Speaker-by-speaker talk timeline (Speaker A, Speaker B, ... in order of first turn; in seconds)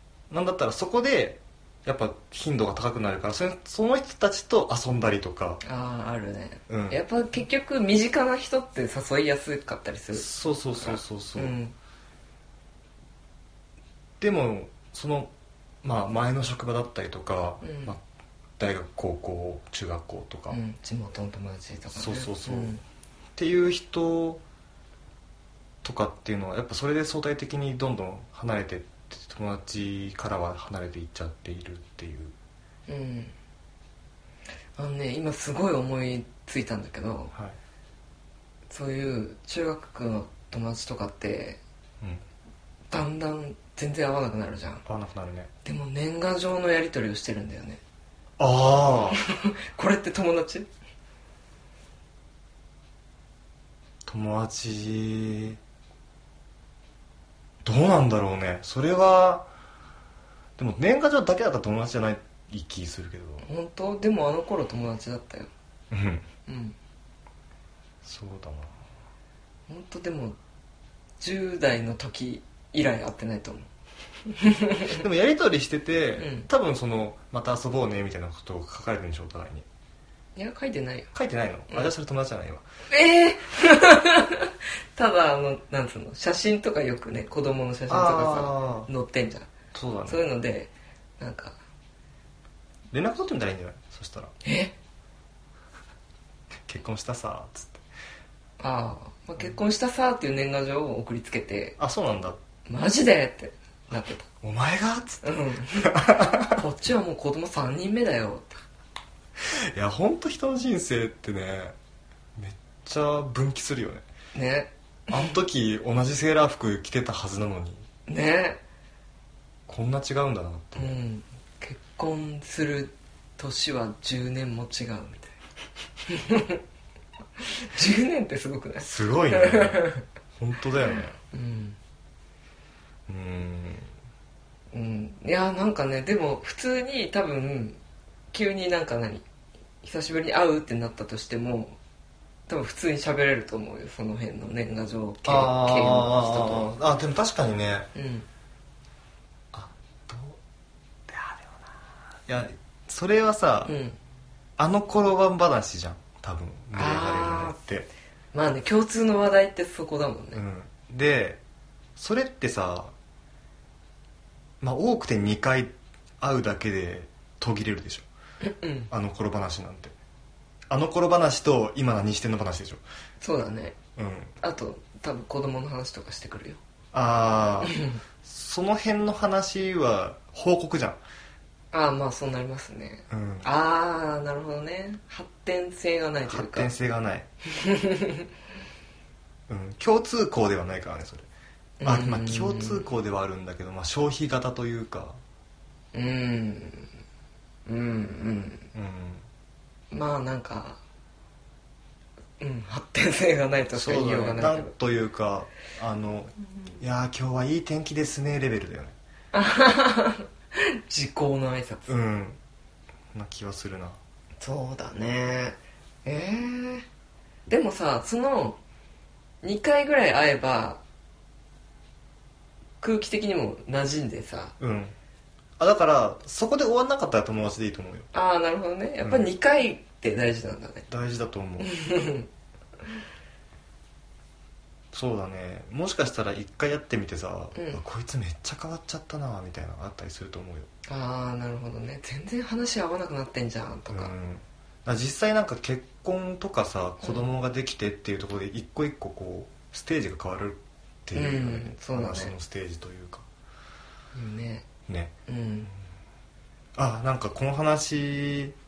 Speaker A: 0.3-5.6, 6.7-7.0, 10.1-11.6, 14.2-15.3, 15.8-18.0, 18.6-20.6, 21.9-22.7, 23.4-24.4, 25.8-32.3, 44.8-45.5, 48.4-49.2, 54.0-55.6, 57.6-59.5, 60.6-63.5, 65.9-66.2, 68.0-68.7, 74.9-79.7, 81.1-82.6, 87.9-88.9, 89.7-90.2, 92.9-94.3, 96.7-97.8, 101.8-102.4, 104.4-106.6, 109.4-111.7, 112.3-114.0, 115.1-117.8, 119.7-121.0, 128.8-129.8, 130.4-131.1, 133.1-133.9, 145.2-147.9, 149.5-150.4, 151.1-151.7, 152.2-153.7, 154.6-157.9, 160.3-161.4, 162.0-162.9, 164.6-168.1, 168.9-169.9, 170.7-172.8, 173.9-174.3, 176.9-181.0, 183.1-183.5, 186.2-187.3, 189.5-191.3, 191.8-195.2, 198.7-199.2, 203.7-208.9, 211.9-212.4, 213.1-214.0, 224.6-224.9, 225.6-228.1, 229.0-229.3, 230.9-231.7, 234.9-240.7, 243.9-253.2, 254.9-255.1, 256.8-258.5
Speaker B: 5.6-11.7, 17.6-17.9, 20.5-22.8, 32.9-33.3, 34.8-37.3, 38.7-41.6, 42.9-44.8, 45.6-47.8, 49.1-50.7, 63.4-65.5, 66.5-66.8, 69.7-70.4, 71.2-73.7, 74.3-75.0, 76.2-76.5, 80.3-81.1, 82.9-89.5, 90.1-91.5, 94.4-94.7, 98.6-101.8, 102.7-104.3, 105.2-108.6, 114.3-115.3, 118.1-118.6, 120.8-125.3, 126.1-126.6, 127.4-130.0, 130.9-131.8, 134.7-137.8, 138.3-139.2, 139.8-141.8, 142.5-146.7, 147.9-148.3, 153.6-154.0, 156.7-157.6, 158.3-160.4, 168.4-168.9, 173.2-173.8, 174.4-176.6, 177.6-178.0, 181.7-186.7, 187.5-188.3, 191.8-192.8, 195.9-196.9, 197.7-198.7, 199.9-200.8, 202.4-204.7, 209.3-211.9, 214.4-216.8, 217.5-218.6, 219.4-220.8, 222.8-224.5, 228.1-230.9, 231.6-232.3, 237.5-237.8, 240.9-244.1, 251.1-252.3, 254.1-254.7, 255.3-255.7